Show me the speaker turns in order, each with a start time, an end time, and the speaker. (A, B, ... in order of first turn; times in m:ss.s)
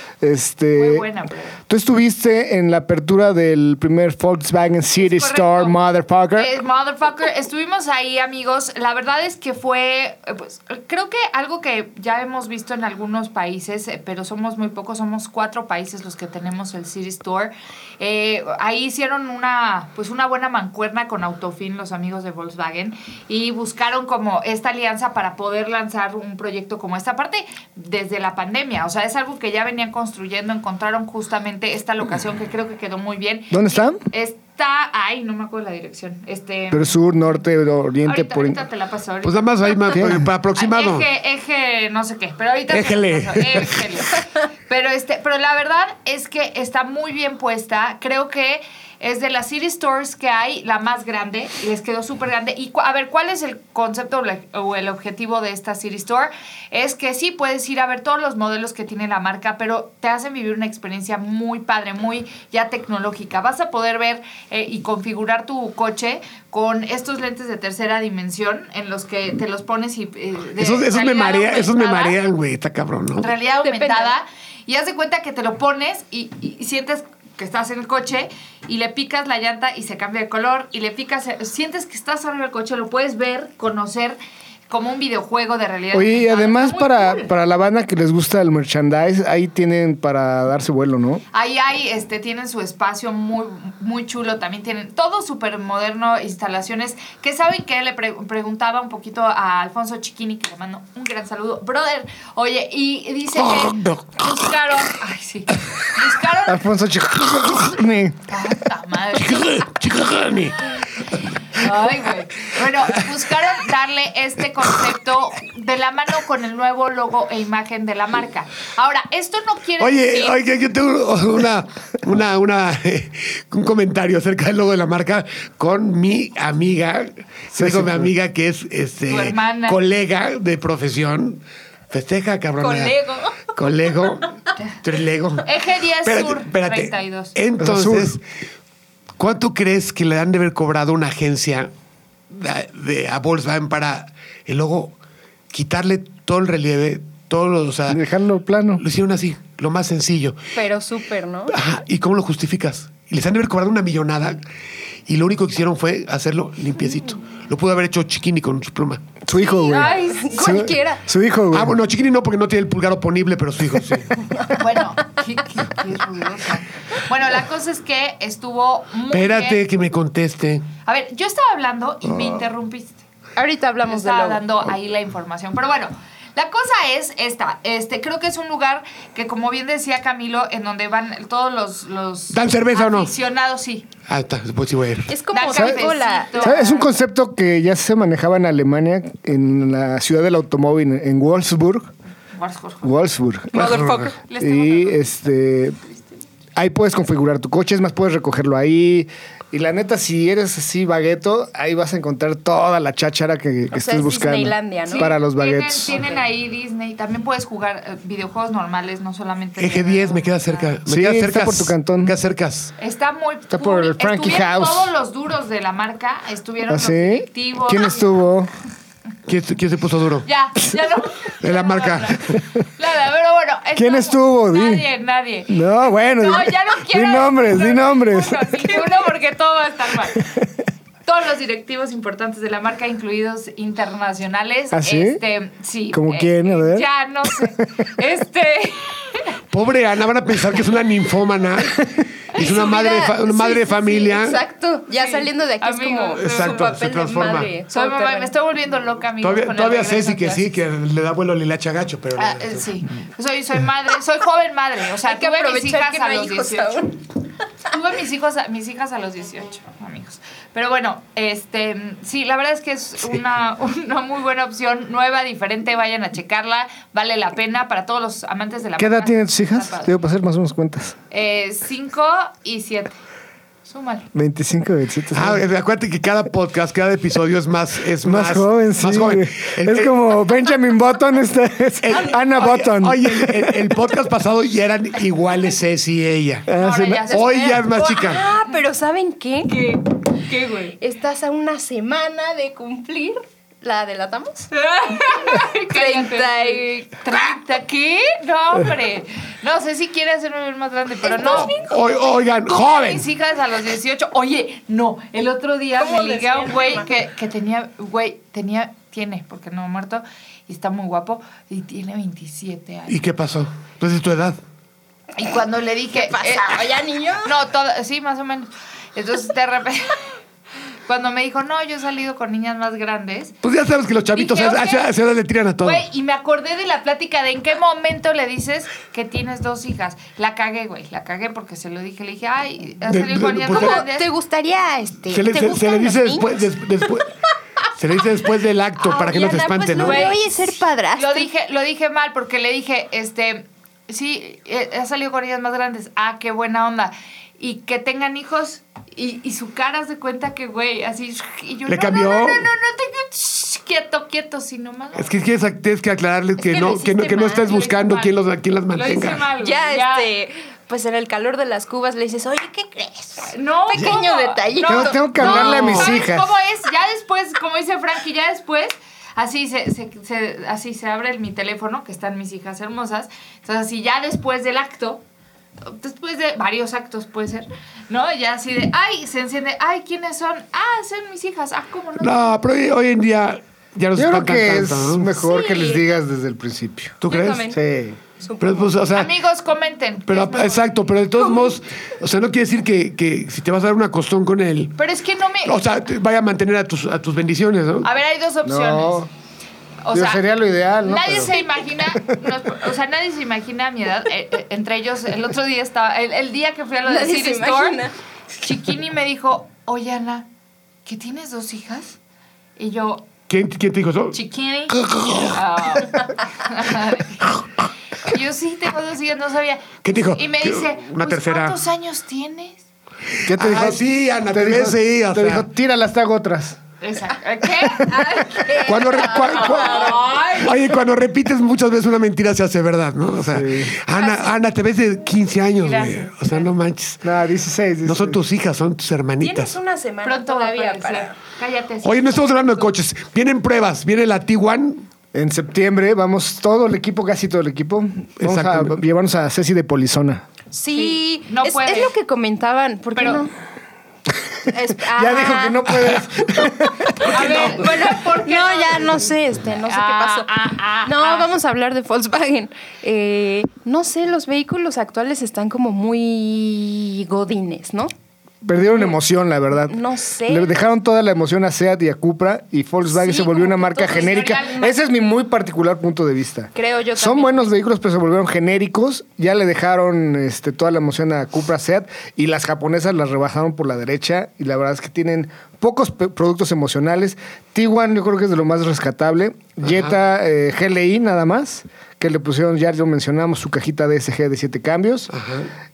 0:00.2-0:01.0 A
0:00.8-0:01.6 B
0:01.7-0:06.5 A
0:05.0-0:05.7 B
0:06.4-0:37.4 B
0:33.5-0:34.0 A
0:36.7-0:38.6 A
0:38.0-1:12.2 B
0:39.2-0:41.0 C
0:39.9-0:40.2 A
0:42.7-0:44.1 C
1:10.6-1:13.3 C
1:13.2-1:24.2 B
1:13.6-1:14.2 D
1:24.7-1:27.3 B
1:25.9-1:31.2 A
1:31.3-1:46.6 B
1:43.3-1:44.5 C
1:46.4-1:48.2 A
1:48.3-1:49.7 B
1:49.1-1:50.7 C
1:51.5-2:00.4 B
1:59.8-2:12.9 C
2:07.6-2:08.1 A
2:09.1-2:09.8 B
2:12.6-2:13.5 D
2:13.5-2:14.3 C
2:14.8-2:15.5 C
2:15.4-2:17.3 B
2:16.0-2:18.2 C
2:17.6-2:18.2 A
2:19.2-2:21.7 C
2:22.3-2:24.9 C
2:25.5-2:28.0 C
2:27.9-2:28.8 A
2:28.8-2:30.4 C
2:30.5-2:31.6 D
2:31.5-2:34.4 C
2:35.1-2:39.1 C
2:39.2-2:41.7 A
2:39.3-2:40.7 B
2:39.7-2:41.0 D
2:41.5-2:44.2 C
2:44.5-2:49.6 B
2:49.1-2:50.7 C
2:50.8-2:53.0 B
2:53.4-2:54.4 D
2:53.9-3:03.9 B
3:02.3-3:03.1 C
3:04.1-3:05.1 C
3:05.1-3:06.9 D
3:05.3-3:06.7 B
3:05.5-3:05.9 A
3:06.4-3:11.9 A
3:12.3-3:12.9 B
3:12.8-3:15.8 A
3:13.5-3:14.2 D
3:13.5-3:14.0 C
3:14.3-3:15.0 B
3:16.6-3:26.0 A
3:23.7-3:25.1 D
3:24.9-3:30.7 B
3:29.6-3:32.7 C
3:30.9-3:32.1 A
3:32.8-3:38.1 B
3:33.5-3:34.9 A
3:36.7-3:38.5 A
3:39.3-3:40.3 C
3:40.2-3:50.3 B
3:41.4-3:42.4 C
3:43.7-3:44.8 A
3:45.5-3:48.9 A
3:50.2-3:50.4 A
3:51.0-3:59.3 B
3:54.7-3:55.2 A
3:55.9-3:56.9 A
3:59.5-4:04.4 C
4:02.4-4:08.3 D
4:04.9-4:06.7 B
4:06.1-4:07.5 C
4:07.7-4:10.5 B
4:09.2-4:12.7 C
4:12.2-4:16.9 B
4:15.0-4:17.0 D
4:17.6-4:29.9 B
4:28.8-4:31.0 A
4:31.1-4:33.0 B
4:33.6-4:34.1 B
4:34.1-4:35.4 A
4:35.1-4:40.0 C
4:38.0-4:43.8 A
4:41.8-4:46.5 C
4:46.5-4:47.1 A
4:46.5-4:47.9 B
4:47.1-4:48.2 C
4:47.2-4:49.7 D
4:49.5-4:50.7 B
4:50.8-4:57.0 D
4:54.5-5:01.5 B
5:01.0-5:01.8 D
5:01.2-5:03.1 C
5:02.4-5:13.0 B
5:05.8-5:06.9 D
5:12.9-5:14.4 C
5:15.2-5:16.7 B
5:15.9-5:17.3 D
5:17.2-5:20.0 B
5:20.8-5:23.3 B
5:23.4-5:25.8 C
5:24.2-5:24.9 B
5:25.6-5:34.1 B
5:32.9-5:33.8 C
5:33.5-5:36.5 D
5:35.1-5:37.1 C
5:37.7-5:40.2 C
5:38.8-5:41.3 D
5:39.8-5:40.2 B
5:41.0-5:55.2 B
5:51.7-5:52.5 C
5:54.9-5:59.3 C
5:56.4-5:57.6 D
5:57.3-5:58.1 B
5:58.7-6:00.1 B
5:59.4-6:05.4 D
6:03.3-6:15.0 B
6:04.6-6:06.3 A
6:05.4-6:06.0 C
6:15.6-6:22.4 B
6:22.0-6:25.1 C
6:23.9-6:27.0 A
6:25.2-6:25.8 D
6:27.0-6:27.5 C
6:27.1-6:27.6 D
6:27.5-6:28.0 A
6:28.2-6:28.7 D
6:28.4-6:29.1 C
6:28.9-6:30.8 B
6:30.1-6:34.8 C
6:31.2-6:31.5 D
6:34.8-6:35.6 B
6:35.4-6:37.9 C
6:37.8-6:39.0 B
6:38.4-6:39.1 A
6:39.8-6:40.2 B
6:39.9-6:41.4 A
6:40.8-6:47.8 B
6:46.8-6:47.9 D
6:48.4-6:50.3 B
6:50.8-6:52.0 B
6:52.6-6:53.1 B
6:53.3-6:54.2 C
6:54.1-6:57.4 B
6:54.7-6:55.4 C
6:58.0-7:02.6 B
6:59.8-7:01.6 C
7:03.2-7:05.5 C
7:03.2-7:06.6 A
7:06.8-7:10.5 B
7:07.8-7:10.5 D
7:08.5-7:17.0 C
7:13.3-7:13.8 A
7:14.0-7:14.3 D
7:15.6-7:16.5 B
7:17.0-7:18.2 A
7:17.8-7:19.6 C
7:19.2-7:21.1 D
7:20.0-7:22.7 B
7:21.8-7:24.8 C
7:25.1-7:30.2 A
7:28.2-7:28.8 C
7:30.5-7:33.3 D
7:30.7-7:31.9 B
7:33.0-7:33.2 B
7:34.4-7:35.7 D
7:34.9-7:37.4 A
7:37.0-7:40.3 D
7:37.0-7:39.0 B
7:39.6-7:41.3 B
7:40.8-7:47.9 D
7:48.4-8:15.1 A
7:49.6-7:50.6 D
7:52.9-7:54.6 D
7:53.8-7:54.7 B
7:56.5-7:57.5 D
8:09.6-8:09.9 C
8:15.1-8:15.5 C